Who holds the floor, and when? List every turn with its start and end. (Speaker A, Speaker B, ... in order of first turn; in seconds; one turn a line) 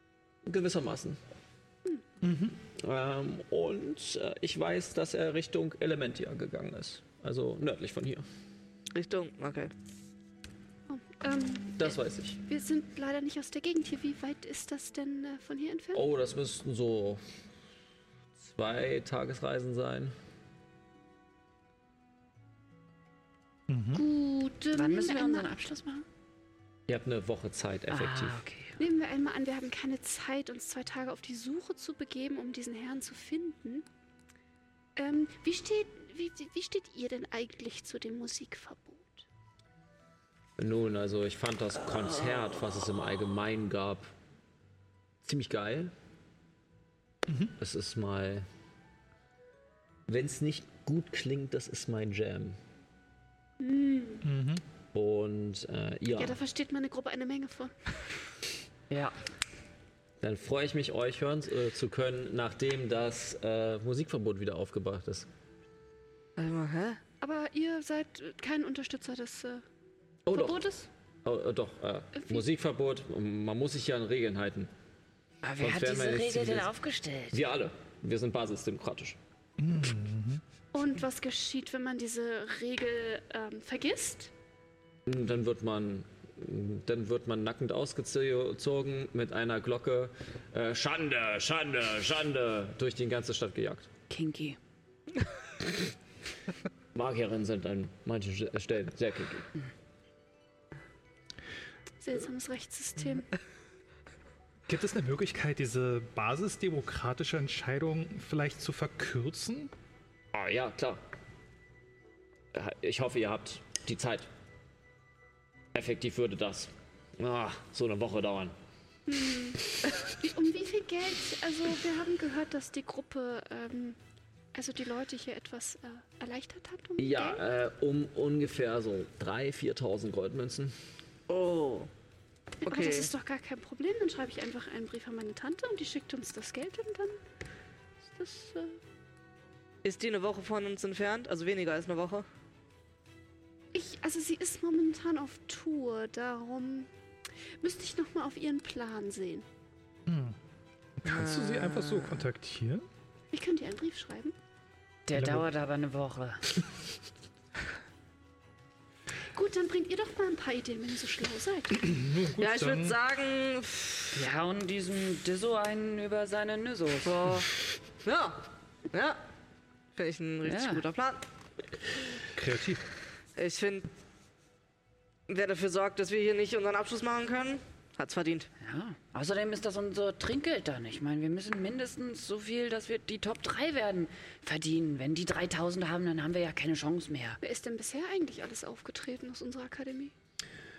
Speaker A: 0.5-1.2
Speaker B: 2.2-2.5
Speaker A: 2.8-8.2
Speaker C: 8.9-9.7
Speaker D: 10.9-16.0
Speaker A: 11.8-12.4
Speaker A: 15.9-17.2
Speaker A: 18.4-20.1
Speaker B: 23.7-24.1
Speaker D: 23.9-25.5
Speaker E: 24.7-26.1
Speaker A: 26.9-28.4
Speaker E: 27.9-28.8
Speaker D: 28.8-33.9
Speaker D: 35.0-39.2
Speaker A: 40.6-44.1
Speaker A: 45.2-45.9
Speaker B: 47.3-47.5
Speaker A: 47.6-48.5
Speaker A: 50.1-52.6
Speaker D: 53.6-54.2
Speaker B: 54.2-54.6
Speaker A: 54.9-56.4
Speaker D: 56.2-57.8
Speaker E: 58.9-59.1
Speaker A: 60.2-65.3
Speaker C: 66.4-67.0
Speaker D: 67.2-69.6
Speaker A: 70.3-70.7
Speaker D: 70.3-70.9
Speaker A: 71.2-74.7
Speaker E: 75.4-77.4
Speaker A: 75.6-76.7
Speaker A: 77.3-79.2
Speaker B: 79.6-80.4
Speaker D: 80.7-84.3
Speaker A: 85.1-93.9
Speaker E: 94.1-94.6
Speaker A: 96.9-99.5
Speaker D: 102.0-103.3
Speaker B: 104.7-109.7
Speaker A: 110.3-111.0
Speaker A: 112.5-114.3
Speaker A: 115.7-118.5
Speaker D: 119.1-124.0
Speaker D: 124.5-127.4
Speaker A: 127.0-130.8
Speaker C: 131.3-131.9
Speaker D: 132.6-137.2
Speaker C: 132.7-133.1
Speaker D: 138.2-138.8
Speaker C: 139.8-142.2
Speaker D: 143.7-146.9
Speaker D: 147.6-149.5
Speaker B: 150.1-150.4
Speaker B: 151.0-152.9
Speaker C: 151.1-152.1
Speaker D: 153.3-154.3
Speaker E: 155.1-156.4
Speaker B: 155.1-155.5
Speaker D: 159.3-161.8
Speaker B: 161.7-163.0
Speaker C: 162.4-164.1
Speaker E: 164.2-167.2
Speaker C: 167.0-167.5
Speaker C: 168.0-169.2
Speaker C: 170.0-171.2
Speaker E: 170.4-170.8
Speaker B: 172.3-172.8
Speaker C: 173.4-173.9
Speaker C: 175.3-178.5
Speaker E: 178.6-187.4
Speaker D: 187.4-190.1